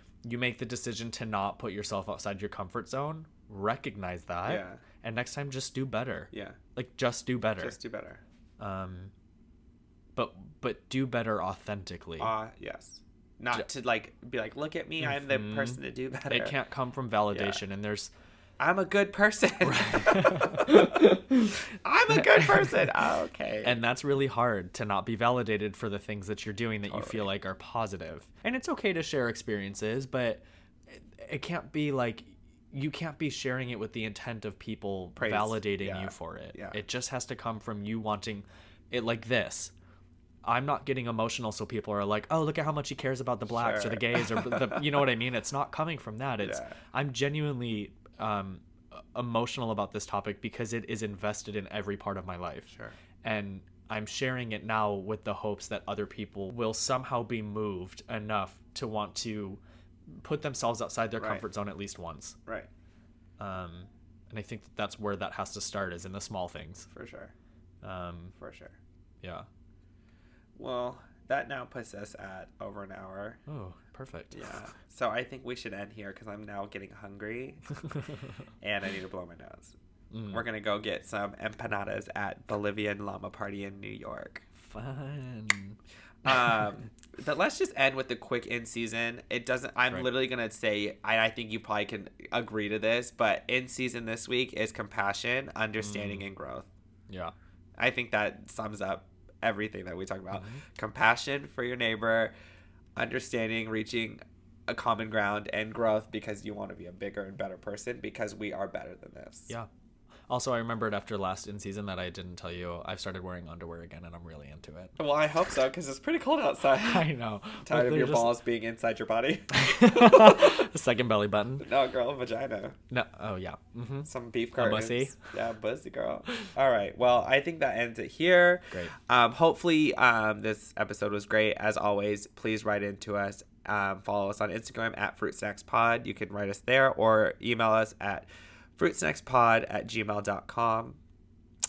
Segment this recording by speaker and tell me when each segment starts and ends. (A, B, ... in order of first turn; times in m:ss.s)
0:00.2-0:07.8 A
0:04.4-0:04.8 B
0:06.3-0:06.6 B
0:07.6-0:08.2 B
0:08.6-0:09.1 A
0:10.2-0:12.3 A
0:12.2-0:16.5 B
0:15.0-0:18.1 A
0:17.3-0:17.6 B
0:18.6-0:21.1 B
0:19.6-0:21.6 A
0:21.8-0:23.8 B
0:22.1-0:22.6 A
0:23.6-0:39.7 A
0:26.9-0:27.3 B
0:35.2-0:36.8 B
0:40.4-0:52.7 A
0:43.5-0:44.8 B
0:46.4-0:46.7 B
0:53.2-1:02.4 A
1:01.2-1:01.4 B
1:03.4-1:06.9 A
1:06.9-1:07.3 B
1:07.8-1:08.3 A
1:08.4-1:08.8 B
1:10.6-1:13.4 B
1:13.5-1:14.7 A
1:14.3-1:17.6 B
1:18.6-1:19.8 B
1:20.1-1:20.4 A
1:20.3-1:24.4 B
1:24.6-1:25.8 A
1:26.2-1:36.7 B
1:35.8-1:36.3 A
1:37.1-1:37.3 A
1:37.8-1:42.3 B
1:40.3-1:40.6 A
1:43.0-1:49.5 B
1:50.3-1:55.0 A
1:55.0-1:57.1 B
1:56.8-1:58.4 A
1:57.6-2:00.6 B
1:59.5-2:01.7 A
2:01.6-2:02.8 B
2:02.9-2:05.2 A
2:04.0-2:21.0 B